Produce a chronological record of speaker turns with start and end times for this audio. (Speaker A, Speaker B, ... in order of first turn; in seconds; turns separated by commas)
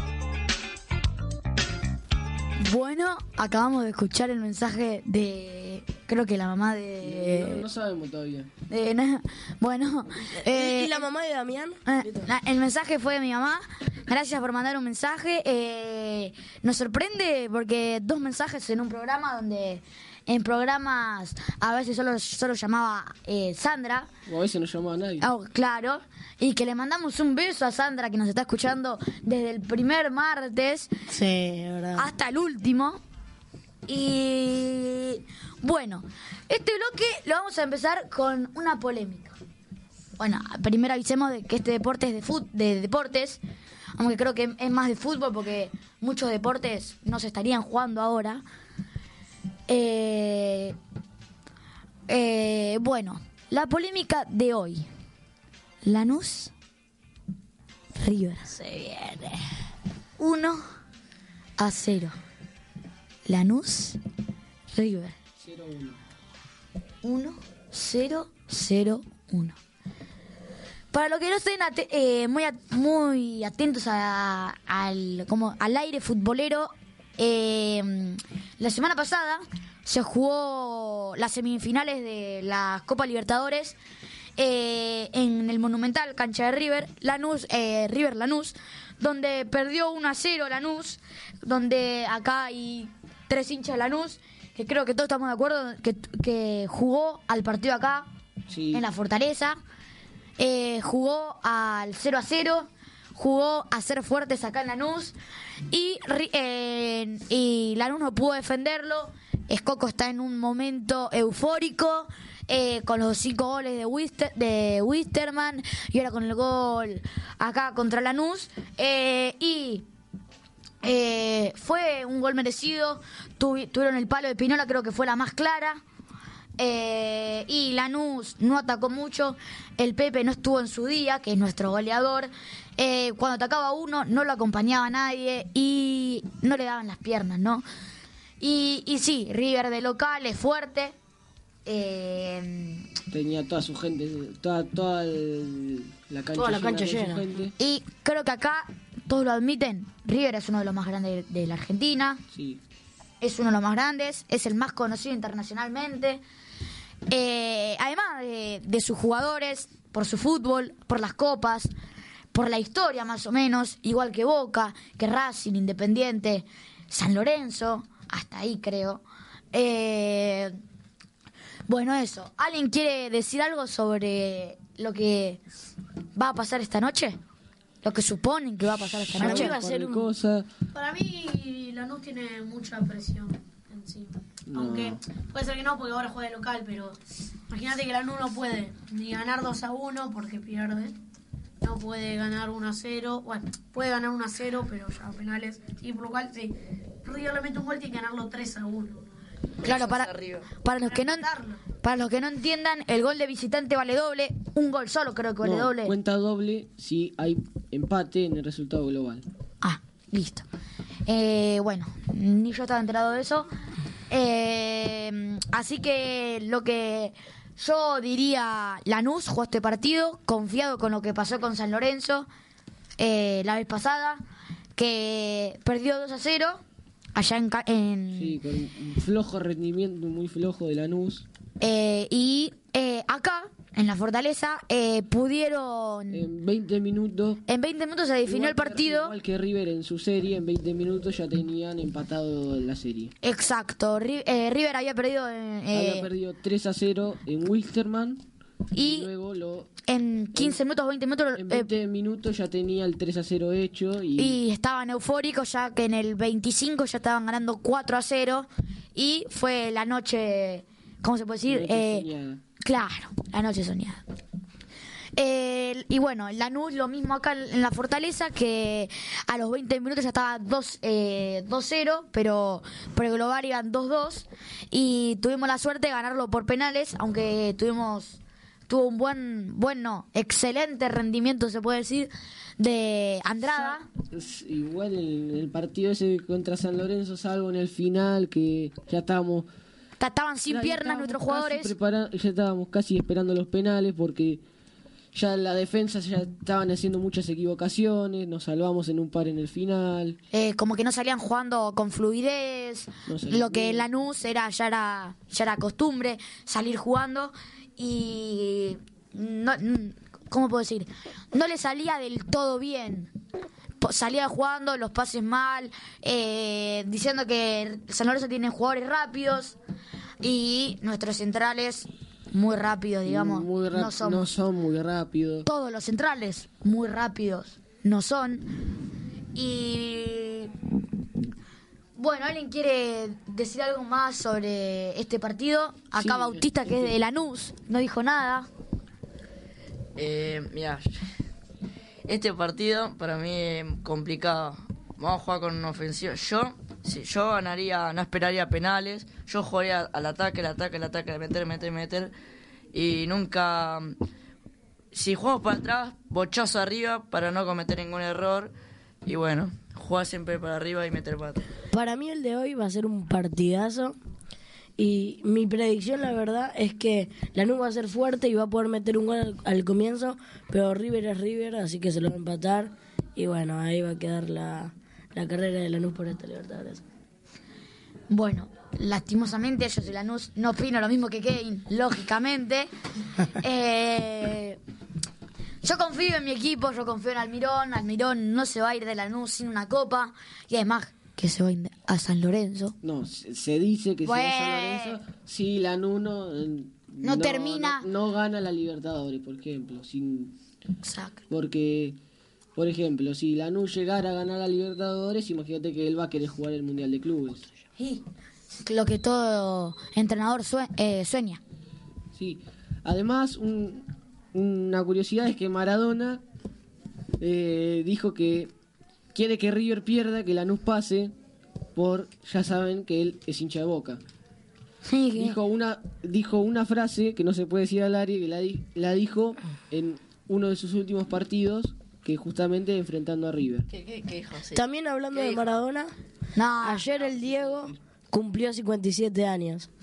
Speaker A: 2.6-7.6, Speaker B: 7.0-8.5, Speaker A: 8.7-11.1, Speaker C: 10.4-12.3, Speaker A: 11.8-24.1, Speaker B: 24.3-25.3, Speaker A: 25.2-30.9, Speaker C: 31.1-32.1, Speaker A: 31.9-33.0, Speaker A: 33.9-39.3, Speaker A: 40.2-43.4, Speaker A: 44.0-48.4, Speaker A: 49.7-50.7, Speaker A: 52.1-54.9, Speaker A: 55.8-56.5, Speaker A: 58.0-58.5, Speaker C: 58.5-59.4, Speaker A: 60.2-60.6, Speaker A: 61.6-62.1, Speaker A: 63.2-64.0, Speaker A: 64.7-65.1, Speaker B: 65.4-66.0, Speaker A: 67.0-69.6, Speaker A: 70.9-83.8, Speaker A: 84.4-98.0, Speaker B: 98.5-98.8, Speaker A: 98.7-99.5, Speaker A: 100.4-105.1, Speaker A: 105.7-119.8, Speaker A: 120.8-125.8, Speaker A: 126.6-137.6, Speaker A: 138.4-140.9, Speaker A: 141.6-142.9, Speaker B: 143.1-147.5, Speaker C: 146.3-147.2, Speaker A: 147.6-152.2, Speaker B: 152.3-152.6, Speaker A: 153.2-156.2, Speaker A: 157.1-161.7, Speaker A: 162.3-170.6, Speaker A: 171.7-175.4, Speaker A: 176.1-177.2, Speaker A: 177.8-179.5, Speaker B: 179.2-180.5, Speaker C: 179.2-180.1, Speaker D: 180.7-190.9, Speaker B: 184.5-185.0, Speaker D: 191.6-199.1, Speaker E: 199.6-200.4, Speaker A: 199.6-201.3, Speaker D: 200.8-201.6, Speaker A: 201.8-205.9, Speaker B: 205.4-209.2, Speaker A: 209.6-210.4, Speaker A: 211.1-213.5, Speaker A: 214.1-222.3, Speaker A: 223.0-224.2, Speaker A: 224.8-226.6, Speaker A: 227.2-228.4, Speaker B: 228.1-231.2, Speaker A: 231.6-236.3, Speaker B: 236.1-237.4, Speaker A: 237.5-239.1, Speaker B: 238.2-243.1, Speaker A: 243.2-246.1, Speaker B: 245.7-248.2, Speaker A: 248.7-249.1, Speaker B: 248.8-249.7, Speaker A: 249.9-251.7, Speaker B: 250.3-250.6, Speaker B: 251.3-254.4, Speaker A: 254.2-262.1, Speaker B: 261.5-262.4, Speaker A: 262.6-264.0, Speaker A: 265.1-283.9, Speaker B: 283.5-289.5, Speaker A: 290.0-291.7, Speaker B: 290.5-294.4, Speaker B: 295.1-300.2, Speaker A: 300.3-313.1, Speaker B: 303.1-303.9, Speaker A: 313.8-319.6, Speaker A: 320.2-324.3, Speaker B: 323.1-325.5, Speaker A: 325.4-328.5, Speaker A: 329.3-330.5, Speaker A: 331.9-338.5, Speaker B: 335.9-337.0, Speaker E: 339.9-340.9, Speaker E: 342.1-352.1, Speaker E: 352.7-353.9, Speaker E: 354.9-358.5, Speaker E: 359.0-361.4, Speaker C: 361.7-363.9, Speaker C: 364.8-376.8, Speaker A: 378.1-382.7, Speaker A: 383.3-384.6, Speaker A: 385.6-392.7, Speaker B: 392.8-400.4, Speaker A: 394.1-395.0, Speaker A: 397.0-397.9, Speaker A: 400.8-401.2, Speaker B: 401.3-402.0, Speaker B: 402.6-407.5, Speaker A: 407.8-408.0, Speaker A: 408.6-411.4, Speaker B: 412.1-416.2, Speaker B: 417.2-418.5, Speaker B: 419.1-421.1, Speaker B: 421.7-424.0, Speaker A: 424.9-425.4, Speaker B: 425.1-433.7, Speaker E: 433.7-435.5, Speaker C: 434.5-435.9, Speaker A: 436.4-436.9, Speaker C: 436.6-439.7, Speaker E: 437.0-437.4